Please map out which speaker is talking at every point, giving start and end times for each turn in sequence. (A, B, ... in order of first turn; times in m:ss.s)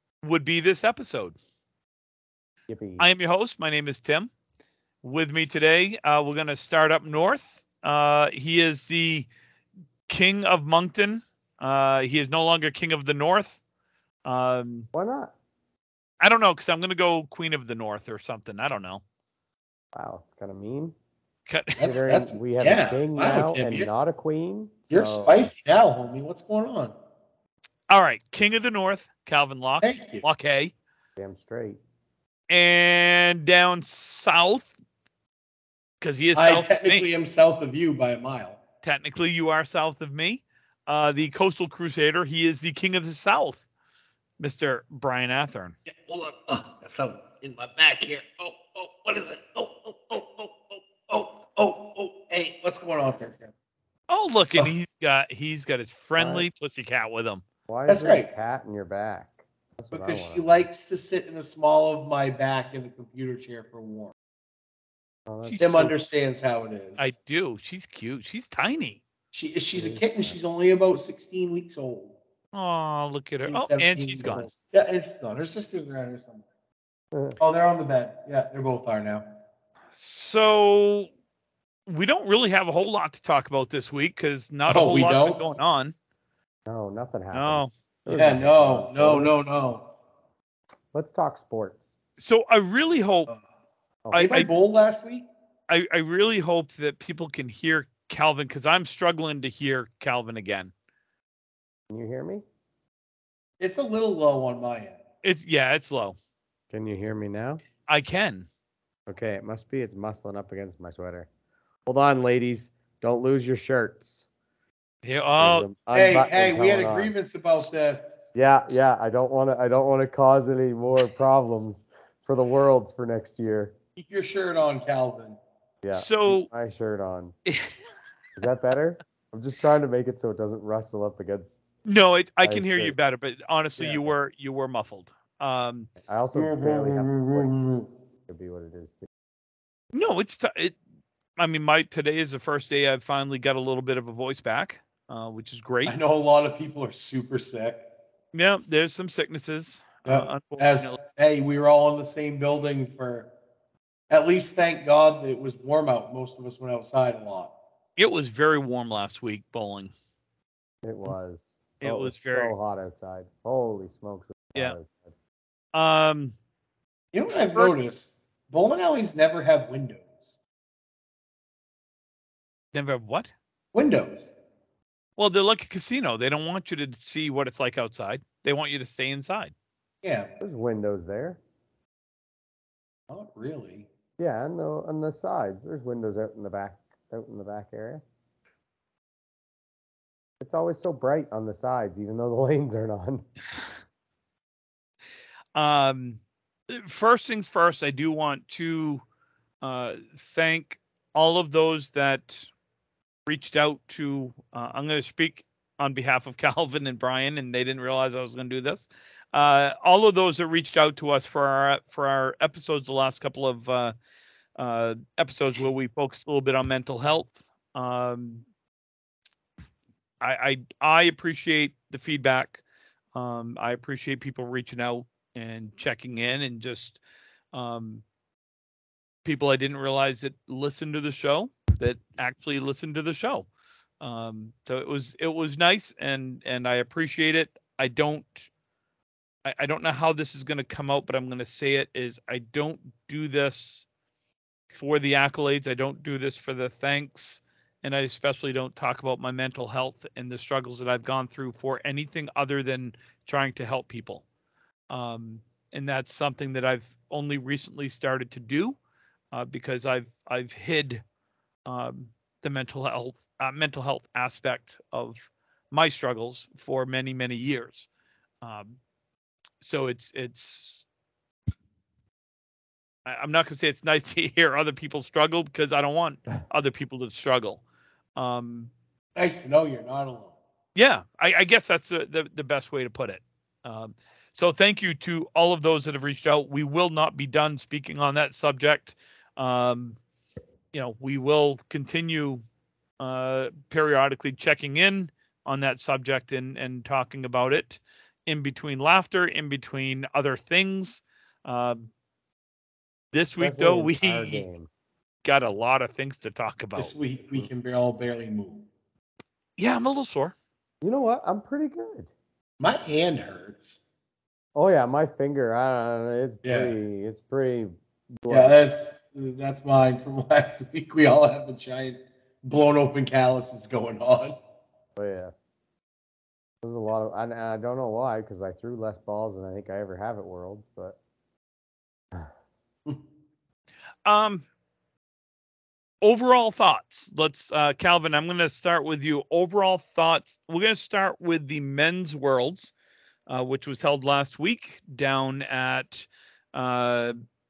0:00.2-0:01.4 A
0:02.7-0:03.1 B
0:03.0-0:04.3 A
0:05.0-0:09.3 A
0:10.1-0:13.6 A
0:14.2-0:14.9 A
0:14.9-0:15.3 B
0:16.2-0:19.0 A
0:19.9-0:21.0 B
0:21.5-0:21.9 A
0:21.8-0:23.9 C
0:21.8-0:25.5 B
0:24.9-0:27.0 C
0:27.9-0:30.7 A
0:29.8-0:30.2 C
0:31.2-0:31.8 B
0:32.5-0:34.8 A
0:36.0-0:37.1 A
0:36.4-0:38.6 C
0:38.8-0:43.6 A
0:44.4-0:45.8 A
0:45.9-0:53.5 C
0:54.1-0:57.4 A
0:56.2-0:56.5 B
0:57.7-1:00.6 B
0:57.9-0:58.3 C
0:59.9-1:04.1 C
1:05.3-1:06.0 B
1:05.4-1:05.9 A
1:05.6-1:07.1 C
1:07.0-1:09.0 A
1:09.3-1:12.2 C
1:09.8-1:10.4 B
1:12.5-1:14.5 A
1:13.5-1:16.4 C
1:17.1-1:17.4 B
1:17.4-1:19.3 C
1:19.9-1:21.1 A
1:21.9-1:25.9 A
1:24.7-1:25.4 C
1:26.7-1:29.3 B
1:27.3-1:27.7 A
1:28.1-1:29.9 C
1:30.9-1:31.9 B
1:32.2-1:33.3 A
1:34.1-1:34.5 A
1:34.2-1:35.3 C
1:35.7-1:40.7 A
1:41.9-1:42.4 B
1:43.6-1:45.0 C
1:45.2-1:46.2 A
1:46.7-1:47.6 B
1:47.9-1:48.5 A
1:49.1-1:51.3 B
1:51.9-1:54.3 B
1:55.0-1:55.7 A
1:55.4-1:57.1 B
1:55.9-1:58.2 C
1:58.4-2:03.8 B
2:04.0-2:05.4 C
2:05.8-2:07.4 B
2:05.9-2:06.5 A
2:07.5-2:07.8 A
2:08.4-2:11.6 B
2:11.9-2:15.9 A
2:12.4-2:13.0 B
2:13.8-2:14.1 B
2:16.0-2:19.1 B
2:16.3-2:17.9 C
2:19.9-2:20.8 A
2:21.4-2:26.0 A
2:25.8-2:27.8 C
2:28.3-2:31.0 A
2:30.1-2:33.3 C
2:34.1-2:37.5 C
2:38.0-2:39.9 A
2:40.8-2:45.1 B
2:41.8-2:42.5 A
2:45.7-2:46.4 A
2:47.1-2:50.1 C
2:47.3-2:47.7 A
2:52.7-2:53.3 A
2:53.7-2:54.3 C
2:55.2-2:59.5 A
3:00.0-3:00.3 C
3:00.4-3:01.4 B
3:03.1-3:03.9 C
3:04.2-3:08.0 B
3:10.4-3:13.3 B
3:15.6-3:19.0 A
3:19.6-3:22.5 A
3:23.3-3:34.0 A
3:34.6-3:38.4 A
3:40.2-3:42.6 A
3:43.2-3:47.0 A
3:47.5-3:48.0 A
3:49.2-3:53.5 A
3:54.0-3:58.5 A
3:59.4-4:03.9 A
4:04.7-4:14.2 A
4:14.9-4:18.8 A
4:19.3-4:21.0 A
4:21.7-4:27.9 A
4:28.4-4:28.8 A
4:29.6-4:30.8 A
4:33.1-4:37.6 A
4:38.2-4:38.7 A
4:39.2-4:40.4 C
4:40.8-4:50.0 A
4:50.7-4:52.4 A
4:53.0-5:01.9 A
5:03.1-5:04.4 A
5:03.4-5:04.7 B
5:05.2-5:06.9 A
5:06.8-5:08.7 C
5:09.6-5:10.3 A
5:10.8-5:12.1 B
5:12.6-5:13.8 C
5:14.6-5:18.6 B
5:16.4-5:16.8 C
5:18.3-5:24.4 C
5:25.0-5:25.3 B
5:26.6-5:31.0 B
5:34.0-5:34.5 A
5:36.0-5:42.7 A
5:43.3-5:47.2 A